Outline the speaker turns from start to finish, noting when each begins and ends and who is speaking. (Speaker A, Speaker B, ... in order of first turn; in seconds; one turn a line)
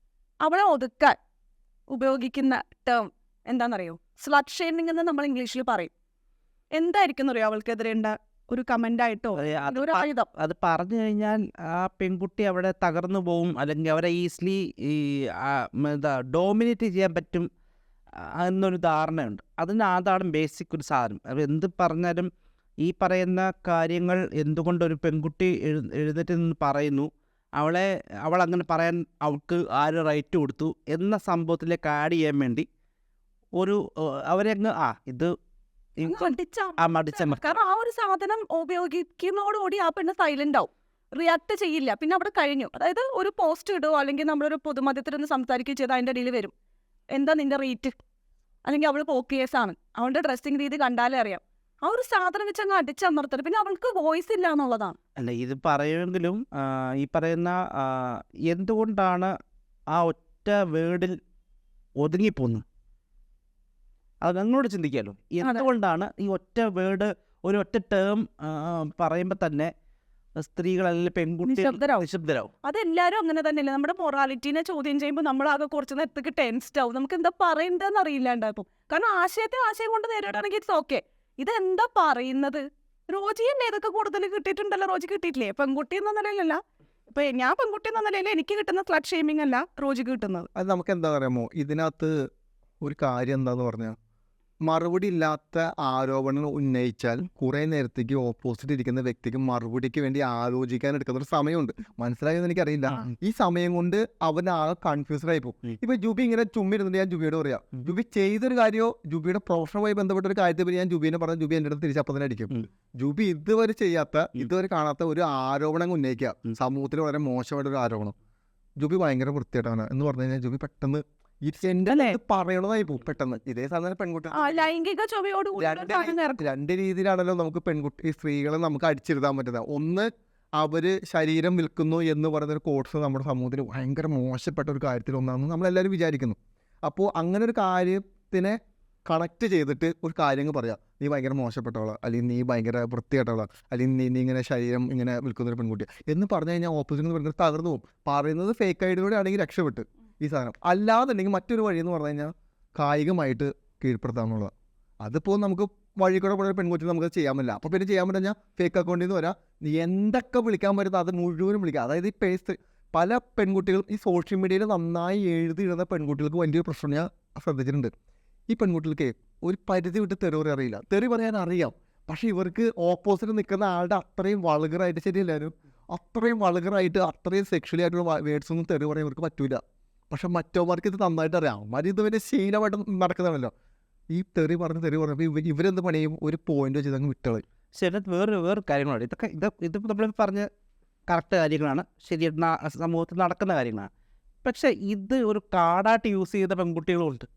Speaker A: 0.4-1.1
Speaker A: 1.9-5.9
Speaker A: 6.8-10.3
Speaker B: 9.4-17.5
Speaker B: 18.2-22.3
Speaker B: 22.8-32.7
Speaker B: 33.6-35.3
Speaker B: 36.0-37.6
Speaker A: 36.0-46.5
Speaker A: 47.1-48.0
Speaker A: 48.6-55.0
Speaker B: 55.2-59.3
Speaker B: 59.9-61.1
Speaker B: 62.0-62.6
Speaker B: 64.2-69.7
Speaker A: 65.4-65.7
Speaker B: 70.4-72.5
Speaker A: 71.4-72.0
Speaker A: 72.6-90.5
Speaker C: 90.5-92.2
Speaker C: 92.8-94.0
Speaker C: 94.6-118.1
Speaker C: 118.8-124.5
Speaker B: 121.9-122.2
Speaker A: 124.3-126.4
Speaker C: 125.6-154.5
Speaker C: 155.0-167.9
Speaker C: 168.5-183.5
Speaker C: 184.1-187.4
Speaker B: 187.7-190.5
Speaker B: 191.1-193.9
Speaker B: 194.4-197.3